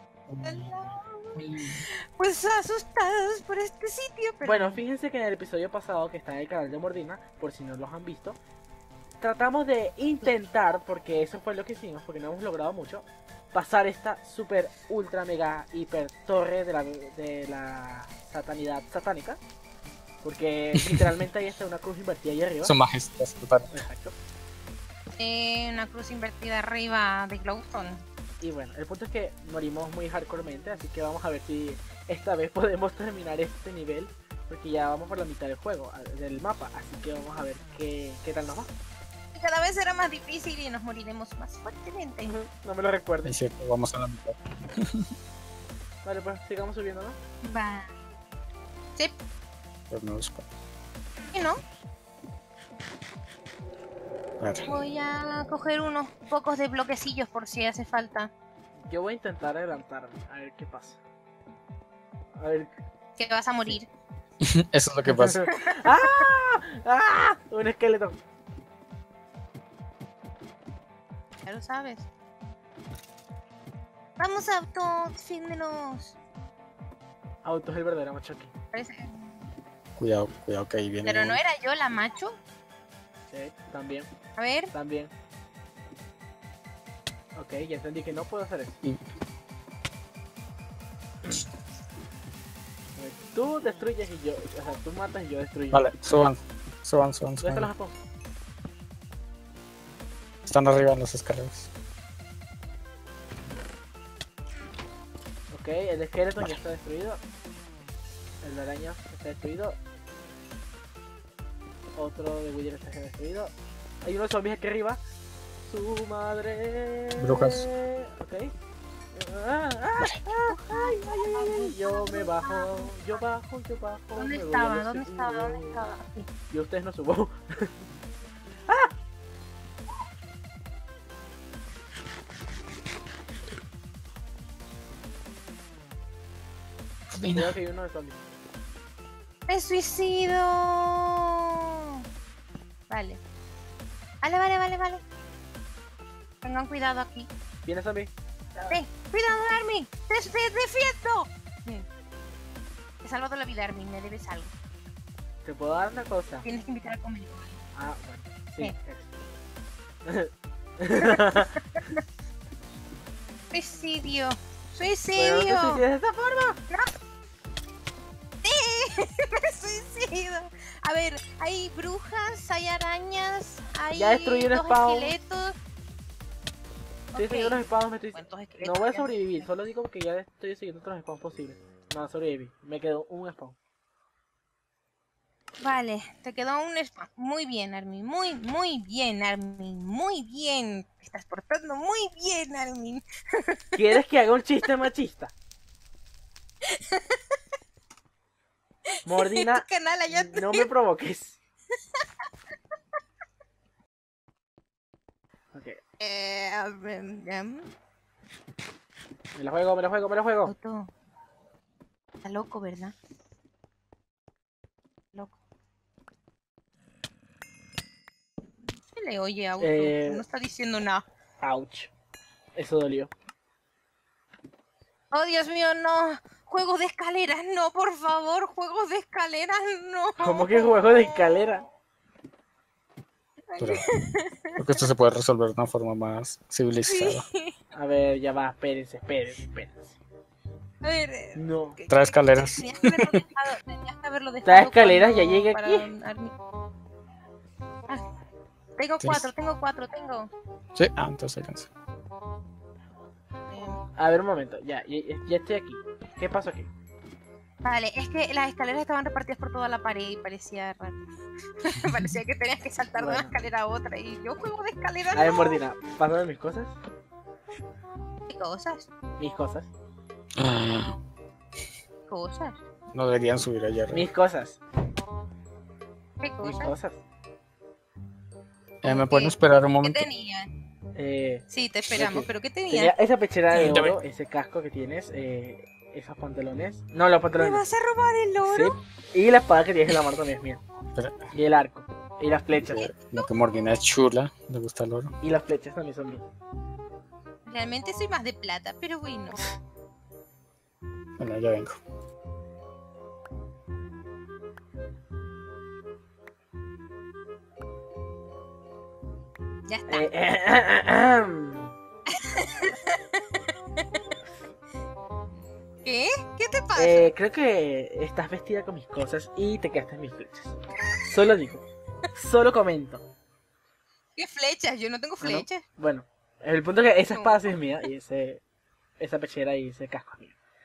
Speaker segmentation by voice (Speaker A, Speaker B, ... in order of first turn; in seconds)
Speaker A: 0.3-1.9, 20.8-21.1, 22.6-23.7, 43.2-45.1, 49.9-50.5, 54.4-54.7, 64.4-65.4, 80.0-81.4, 95.7-97.7, 100.5-101.7, 117.2-117.7, 137.1-137.5, 233.6-233.9, 234.6-237.3, 241.9-243.2, 249.0-249.3, 250.8-251.7, 261.8-262.1, 270.4-271.0, 272.9-274.1, 278.8-280.1, 283.5-284.0, 290.9-291.3, 292.6-295.1, 301.2-301.8
Speaker B: 0.4-1.4, 1.9-4.8, 25.2-28.0, 39.3-42.4, 47.4-47.9, 51.3-51.6, 54.7-58.3, 63.2-63.9, 65.5-66.3, 71.5-72.1, 74.2-76.2, 78.7-79.3, 81.0-82.4, 84.4-84.7, 120.1-123.2, 124.2-126.3, 139.5-142.0, 142.9-143.2, 144.2-145.0, 146.4-147.3, 148.7-151.9, 153.0-154.5, 156.4-157.6, 161.0-162.0, 163.5-165.8, 168.4-175.6, 177.1-177.6, 178.1-179.5, 185.6-193.8, 196.7-197.4, 199.0-200.7, 206.0-207.7, 210.5-210.9, 212.2-212.9, 218.9-221.1, 225.1-231.1, 233.5-234.8, 236.9-237.6, 240.8-246.3, 248.8-250.3, 253.5-253.8, 257.6-261.0, 261.6-265.6, 268.3-268.9, 272.1-272.6, 276.2-276.8, 278.9-280.5, 281.5-282.9, 287.4-288.8, 297.5-299.4, 309.7-310.1, 312.1-314.0, 315.8-317.1, 324.2-325.6, 327.1-327.4
Speaker C: 4.5-8.4, 9.2-19.4, 20.2-22.7, 23.7-24.1, 28.4-38.7, 42.2-43.3, 46.0-47.2, 58.9-61.0, 62.4-62.7, 65.1-68.2, 77.4-78.5, 83.3-84.1, 84.7-85.1, 87.3-88.8, 93.0-95.8, 97.4-98.0, 105.5-107.2, 108.4-109.8, 112.0-115.0, 115.6-118.5, 119.1-125.9, 126.5-127.8, 128.7-128.9, 137.3-138.2, 147.7-148.8, 155.4-156.5, 157.8-159.2, 160.1-161.6, 165.2-166.6, 174.0-175.1, 177.2-183.6, 193.8-195.3, 199.1-201.4, 205.5-205.8, 209.3-210.6, 219.6-220.2, 221.4-221.9, 222.6-223.1, 230.2-231.7, 237.7-240.0, 241.3-241.8, 244.4-245.9, 254.0-256.7, 263.0-263.4, 265.1-266.8, 269.2-269.7, 273.9-274.6, 276.4-277.0, 280.9-287.6, 288.4-290.6, 291.3-292.9, 295.2-296.3, 309.9-311.8, 316.8-323.0, 325.2-328.4, 329.0-330.4